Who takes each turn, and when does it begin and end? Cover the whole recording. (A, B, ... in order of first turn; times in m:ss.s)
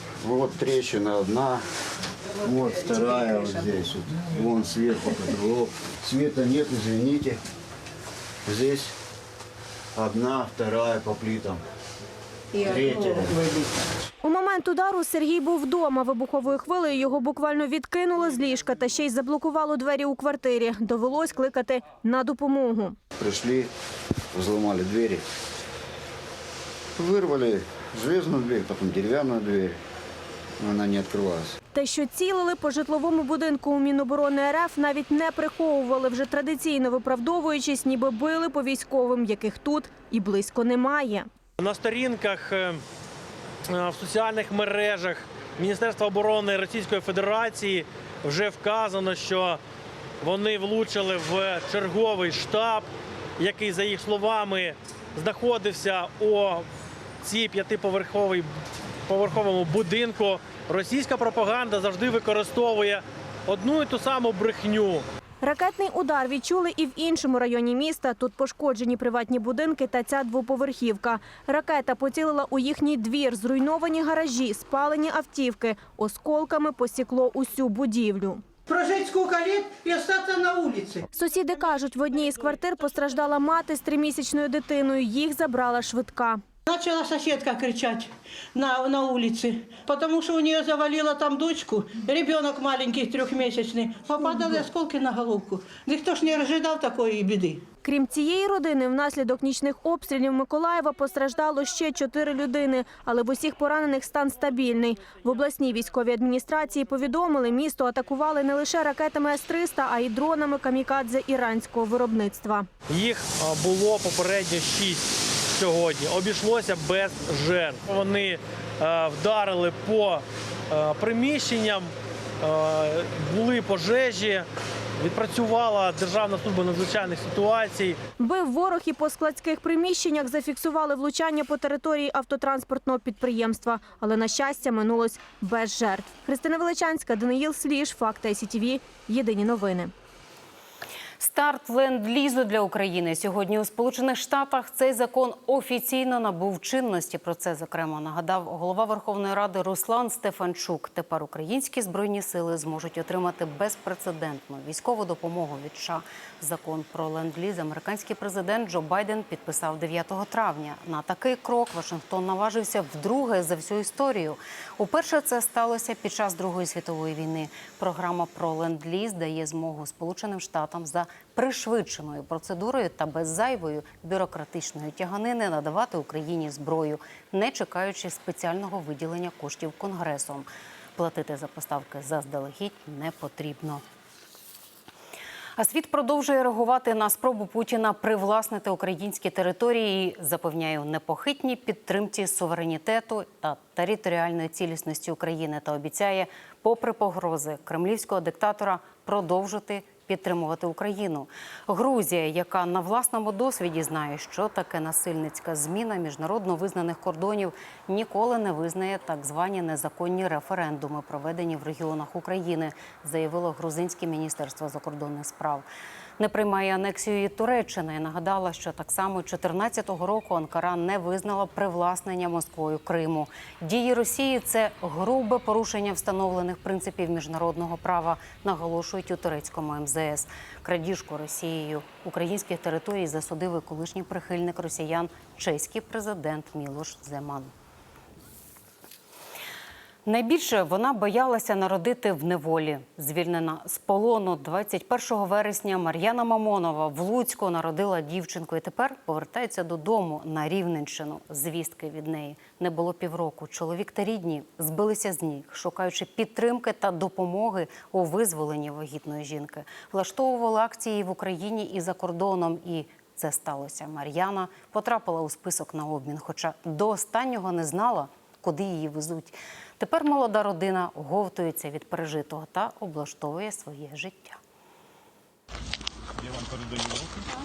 0:00.2-0:01.6 A
0:02.4-0:07.4 A
0:08.4-0:08.9 A
0:10.0-0:11.6 A
0:12.7-0:13.4 A
0:14.2-0:23.0 B
0:23.2-0:23.7 A
0:24.3-0:25.2 A
0:27.0-0:29.8 A
0:30.6-0:31.5 A
0:31.7-0:41.3 B
0:41.6-0:42.8 C
0:43.7-0:49.6 C
0:50.2-0:52.9 C
0:53.4-0:56.6 C
0:57.2-0:58.5 C
0:59.1-1:05.0 C
1:05.4-1:18.4 B
1:18.7-1:21.0 D
1:21.1-1:26.4 B
1:26.7-1:37.6 D
1:37.8-1:52.7 B
1:52.9-2:01.9 C
2:02.4-2:04.4 C
2:05.0-2:08.0 C
2:08.2-2:19.9 B
2:21.2-3:03.8 E
3:05.6-3:35.6 E
3:36.2-3:57.5 E
4:00.1-4:34.4 E